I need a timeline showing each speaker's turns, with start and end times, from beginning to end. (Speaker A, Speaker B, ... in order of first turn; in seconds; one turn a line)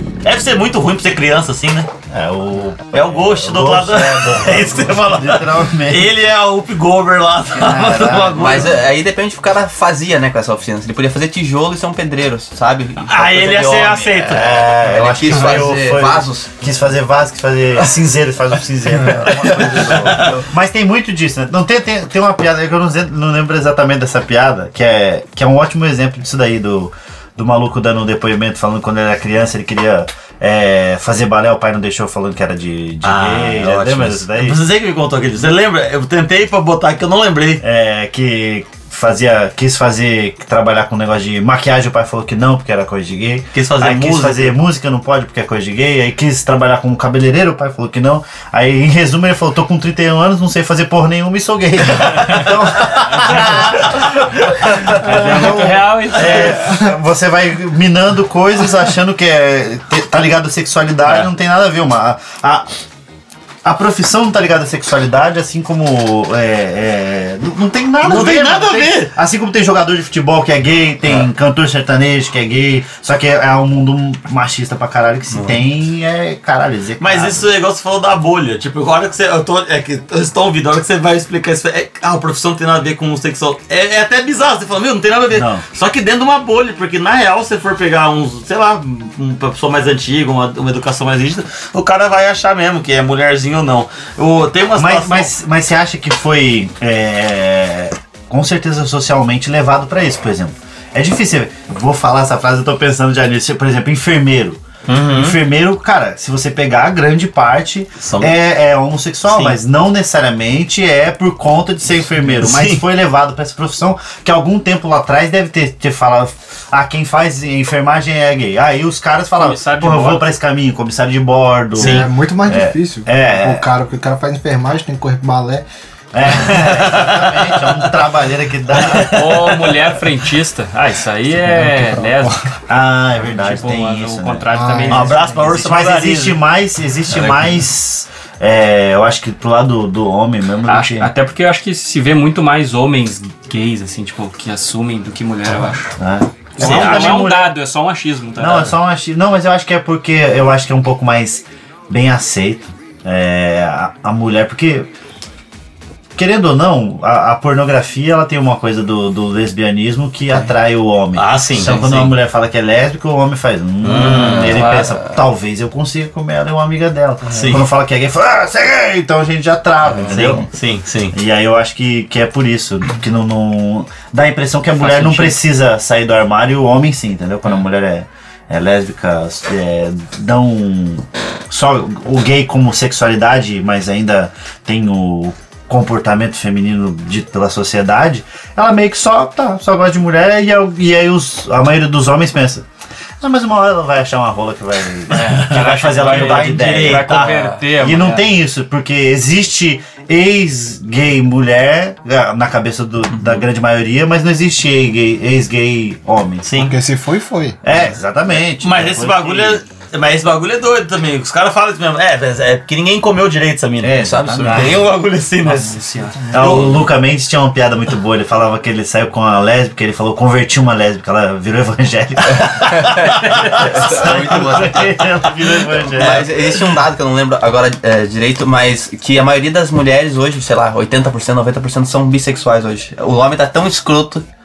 Speaker A: 0.2-1.9
Speaker B: 2.1-6.1
Speaker A: 2.9-8.8
Speaker B: 7.5-8.7
Speaker C: 8.3-16.5
Speaker A: 13.1-14.6
Speaker B: 14.3-34.6
Speaker C: 19.3-20.4
Speaker A: 33.0-37.6
Speaker B: 37.6-62.7
Speaker A: 43.5-44.6
Speaker D: 55.0-56.7
Speaker B: 63.6-77.5
Speaker A: 68.0-69.1
Speaker C: 75.3-75.6
Speaker A: 77.0-95.3
Speaker B: 85.3-85.6
Speaker B: 94.8-123.7
Speaker A: 104.9-105.4
Speaker A: 108.0-108.3
Speaker A: 109.3-109.6
Speaker A: 112.4-112.8
Speaker D: 119.4-120.2
Speaker A: 121.8-122.1
Speaker E: 121.8-125.7
Speaker B: 126.1-129.7
Speaker A: 126.5-127.8
Speaker A: 128.7-129.6
Speaker D: 129.0-132.5
Speaker E: 131.4-132.4
Speaker B: 132.7-141.1
Speaker D: 133.3-135.6
Speaker E: 134.5-135.2
Speaker A: 134.9-136.4
Speaker D: 140.7-145.9
Speaker B: 146.0-147.5
Speaker D: 146.6-148.7
Speaker A: 146.6-147.2
Speaker B: 148.4-154.9
Speaker B: 156.2-170.5
Speaker A: 161.2-162.1
Speaker A: 163.8-164.6
Speaker D: 164.4-165.0
Speaker A: 167.3-167.6
Speaker A: 170.0-171.2
Speaker B: 171.1-192.7
Speaker D: 174.8-175.3
Speaker B: 193.2-206.5
Speaker A: 195.1-197.5
Speaker D: 195.1-198.3
Speaker A: 206.4-206.8
Speaker E: 206.6-207.6
Speaker B: 207.6-209.6
Speaker A: 208.6-216.9
Speaker B: 213.8-214.9
Speaker C: 213.9-214.8
Speaker D: 215.4-216.3
Speaker B: 216.3-226.3
Speaker C: 223.1-225.1
Speaker C: 225.8-234.2